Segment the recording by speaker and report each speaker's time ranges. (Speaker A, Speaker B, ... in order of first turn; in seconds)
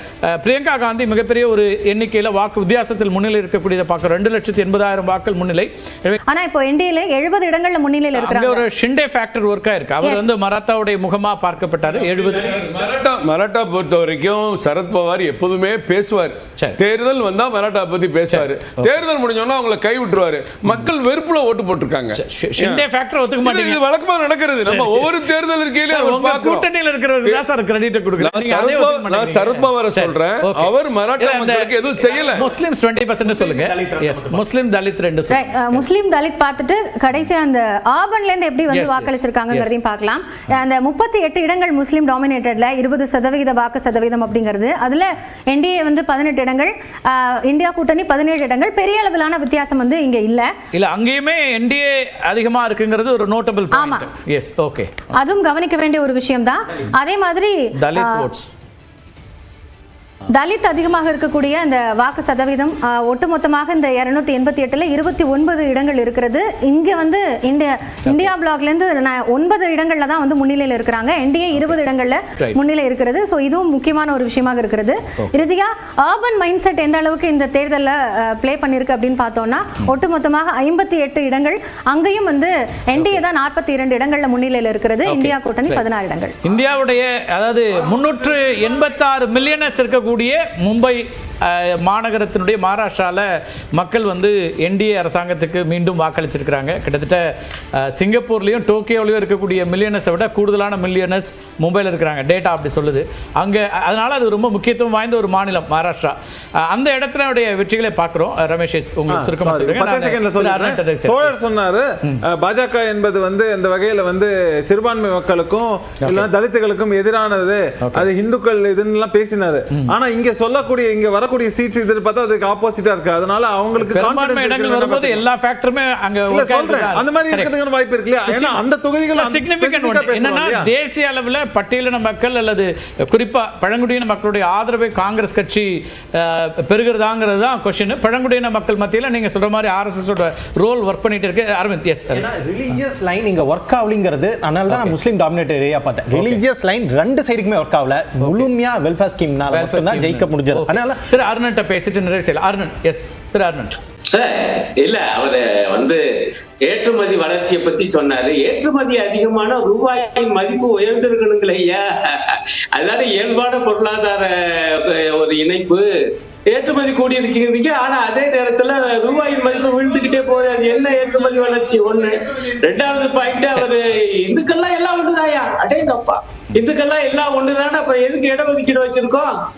Speaker A: 0.2-6.2, 8.1-12.5, 18.3-18.9, 22.1-23.8, 24.5-25.1, 25.8-35.9, 38.7-39.8, 50.7-55.0, 57.8-58.5, 68.0-68.3, 85.0-85.8, 86.4-111.4, 117.8-118.1, 123.8-127.5, 128.2-128.6, 129.1-142.3, 144.7-145.0, 146.1-146.4, 148.2-148.5, 149.5-153.7
Speaker B: 6.3-8.6, 10.0-10.3, 35.3-50.5, 53.7-54.1, 55.1-58.3, 60.3-86.3
Speaker C: 12.2-22.9, 23.4-27.4, 28.2-32.5
Speaker D: 32.0-32.4, 33.2-34.4, 142.1-151.1
Speaker E: 109.1-125.2, 126.3-130.7
Speaker F: 154.1-156.0, 156.6-165.9, 166.5-179.3